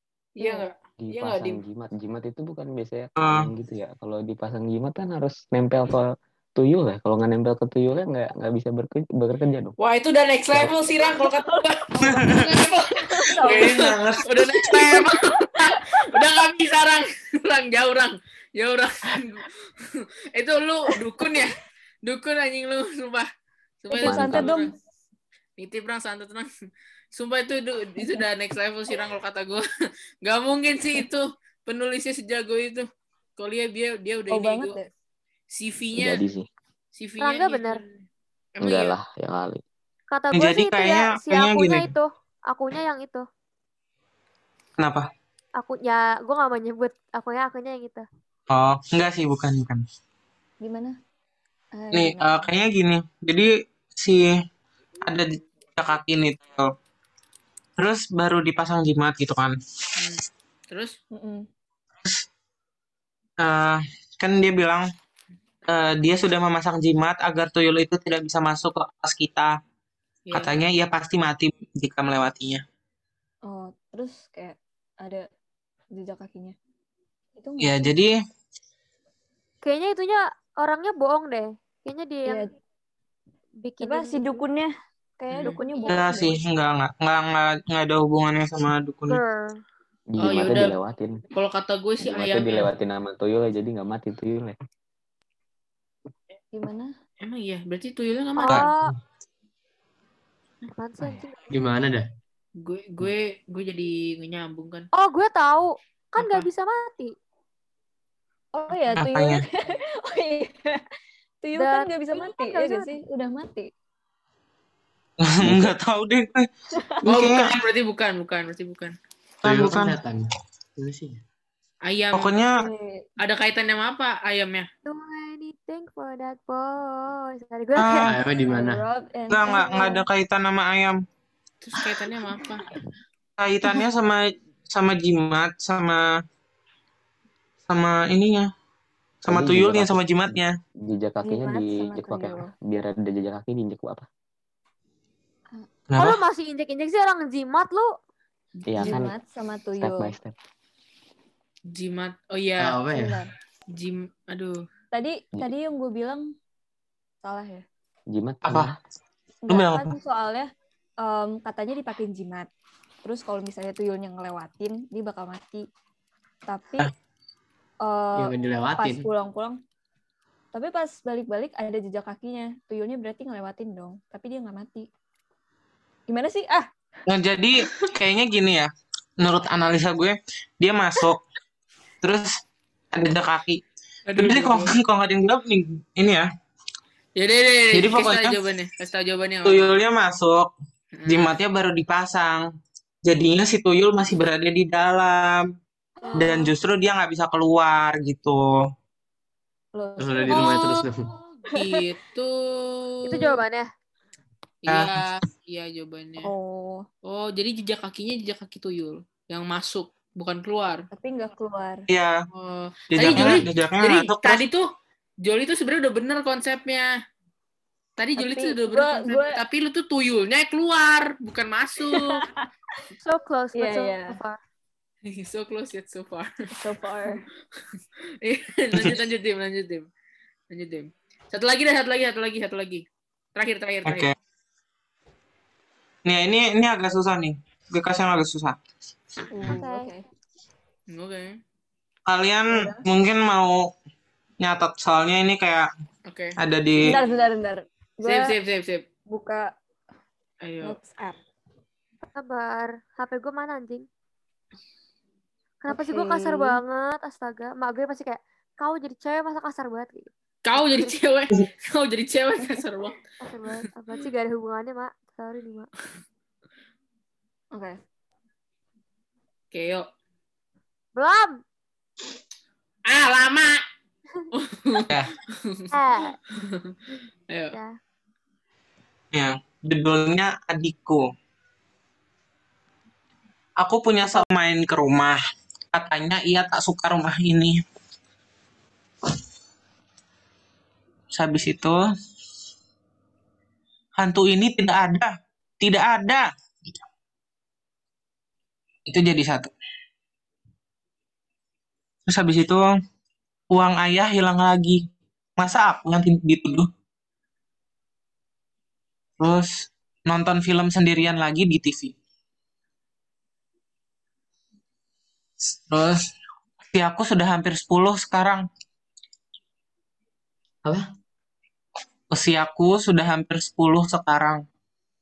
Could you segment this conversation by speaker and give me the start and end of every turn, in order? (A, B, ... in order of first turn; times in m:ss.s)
0:00.4-0:01.6 A
0:00.4-0:00.7 B
0:01.0-0:09.7 C
0:03.2-0:03.5 D
0:09.8-0:23.3 A
0:11.0-0:11.6 B
0:12.0-0:12.4 D
0:12.9-0:13.8 B
0:13.4-0:15.0 D
0:15.8-0:16.2 B
0:20.9-0:21.4 B
0:23.8-0:24.7 A
0:23.9-0:24.7 B
0:24.0-0:24.6 C
0:25.6-0:26.5 A
0:27.1-0:29.6 A
0:30.2-0:34.8 A
0:34.3-0:34.9 B
0:35.5-0:36.2 A
0:35.9-0:36.5 C
0:36.9-0:37.8 A
0:37.2-0:37.8 E
0:38.6-0:39.0 A
0:38.6-0:39.6 C
0:40.1-0:43.2 E
0:40.3-0:41.9 D
0:44.8-0:45.1 D
0:45.6-0:48.1 E
0:48.5-0:49.8 D
0:50.6-0:51.0 B
0:51.7-0:52.4 B
0:51.9-0:54.3 D
0:55.0-0:56.7 D
0:57.8-0:59.6 D
1:00.0-1:00.9 A
1:01.1-1:01.5 B
1:03.4-1:04.9 D
1:05.7-1:09.5 D
1:10.3-1:10.6 A
1:10.3-1:12.6 D
1:13.5-1:15.3 B
1:16.0-1:16.6 B
1:17.4-1:17.9 B
1:17.6-1:18.1 D
1:19.6-1:22.5 E
1:22.2-1:22.5 B
1:23.6-1:24.4 E
1:23.8-1:26.4 B
1:25.3-1:25.6 A
1:25.6-1:26.1 E
1:25.9-1:29.2 D
1:29.1-1:29.6 E
1:30.1-1:31.2 C
1:30.2-1:30.8 A
1:31.3-1:32.7 A
1:32.0-1:34.6 C
1:36.5-1:36.9 B
1:37.2-1:38.7 A
1:38.4-1:38.9 E
1:40.8-1:41.4 E
1:41.5-1:42.1 F
1:42.6-1:44.9 A
1:44.9-1:47.1 E
1:46.2-1:46.5 A
1:48.5-1:50.8 B
1:49.0-1:49.4 D
1:51.4-1:53.7 B
1:51.6-1:53.0 E
1:55.2-1:56.5 D
1:57.0-1:57.6 D
1:57.0-1:59.0 A
1:59.4-2:00.0 D
1:59.4-2:00.2 F
2:00.8-2:01.2 F
2:01.8-2:02.4 A
2:02.1-2:02.6 D
2:02.6-2:03.1 B
2:03.2-2:04.7 A
2:04.9-2:08.1 E
2:07.8-2:08.1 D
2:08.1-2:08.8 F
2:08.5-2:10.0 B
2:09.3-2:11.0 D
2:11.6-2:12.7 A
2:13.4-2:16.0 D
2:17.7-2:18.5 D
2:19.2-2:20.5 D
2:19.3-2:24.1 C
2:21.2-2:22.5 B
2:25.9-2:26.2 D
2:26.0-2:28.0 E
2:28.6-2:29.0 A
2:28.7-2:29.1 C
2:28.8-2:30.1 B
2:29.8-2:30.3 C
2:31.7-2:32.8 A
2:32.6-2:33.2 F
2:32.9-2:33.3 B
2:33.7-2:34.6 A
2:34.9-2:36.3 B
2:37.2-2:37.6 B
2:38.1-2:38.8 C
2:38.4-2:38.7 D
2:39.4-2:40.5 B
2:39.5-2:39.9 D
2:41.0-2:42.5 B
2:43.0-2:45.6 B
2:46.5-2:46.9 B
2:47.8-2:49.6 B
2:48.2-2:49.1 F
2:50.5-2:54.9 B
2:56.1-2:56.7 B
2:57.1-3:01.2 D
3:02.0-3:02.4 D
3:02.9-3:03.6 D
3:04.1-3:04.7 A
3:04.2-3:06.3 D
3:07.2-3:09.7 A
3:07.7-3:08.4 D
3:09.4-3:10.5 D
3:11.0-3:11.3 A
3:11.1-3:12.5 D
3:13.0-3:15.5 D
3:16.0-3:16.5 B
3:16.2-3:18.6 D
3:19.7-3:20.8 B
3:20.0-3:21.1 F
3:20.3-3:20.6 A
3:21.5-3:23.4 A
3:21.5-3:21.9 B
3:23.0-3:23.7 E
3:24.6-3:26.3 A
3:24.7-3:25.0 D
3:26.2-3:26.8 B
3:27.0-3:30.9 A
3:30.9-3:31.9 B
3:31.9-3:32.2 D
3:32.3-3:34.6 A
3:32.9-3:34.4 D
3:35.2-3:36.9 A
3:38.0-3:42.3 A
3:38.2-3:39.4 B
3:41.8-3:42.4 B
3:43.0-3:44.4 E
3:43.5-3:44.2 B
3:45.0-3:46.3 A
3:46.5-3:47.2 B
3:48.2-3:49.9 A
3:50.5-3:52.8 A
3:53.4-3:54.1 A
3:53.9-3:54.1 D
3:56.1-3:58.6 D
3:59.3-4:00.1 B
3:59.5-3:59.9 E
4:00.9-4:01.4 A
4:02.1-4:03.7 D
4:02.5-4:02.8 B
4:04.4-4:05.7 D
4:06.1-4:06.4 A
4:06.4-4:06.9 D
4:06.8-4:08.4 B
4:08.0-4:08.9 A
4:09.1-4:09.5 B
4:10.4-4:10.8 A
4:10.6-4:11.2 B
4:12.0-4:13.9 E
4:15.6-4:20.9 E
4:15.7-4:16.6 B
4:20.4-4:23.0 A
4:23.2-4:25.7 E
4:27.5-4:27.8 B
4:29.5-4:29.9 A
4:31.0-4:31.4 E
4:32.9-4:33.6 A
4:34.3-4:35.7 A
4:35.7-4:36.2 E
4:36.4-4:36.7 A
4:37.3-4:37.6 A
4:37.5-4:37.8 E
4:39.1-4:41.0 D
4:43.6-4:45.2 D
4:45.7-4:47.6 D
4:51.1-4:51.8 D
4:54.0-4:56.3 D
4:58.9-4:59.5 D
5:02.1-5:02.7 D
5:03.5-5:04.8 D
5:05.4-5:06.7 D
5:09.2-5:11.9 D
5:15.7-5:16.0 D
5:16.7-5:18.4 D
5:22.1-5:24.4 D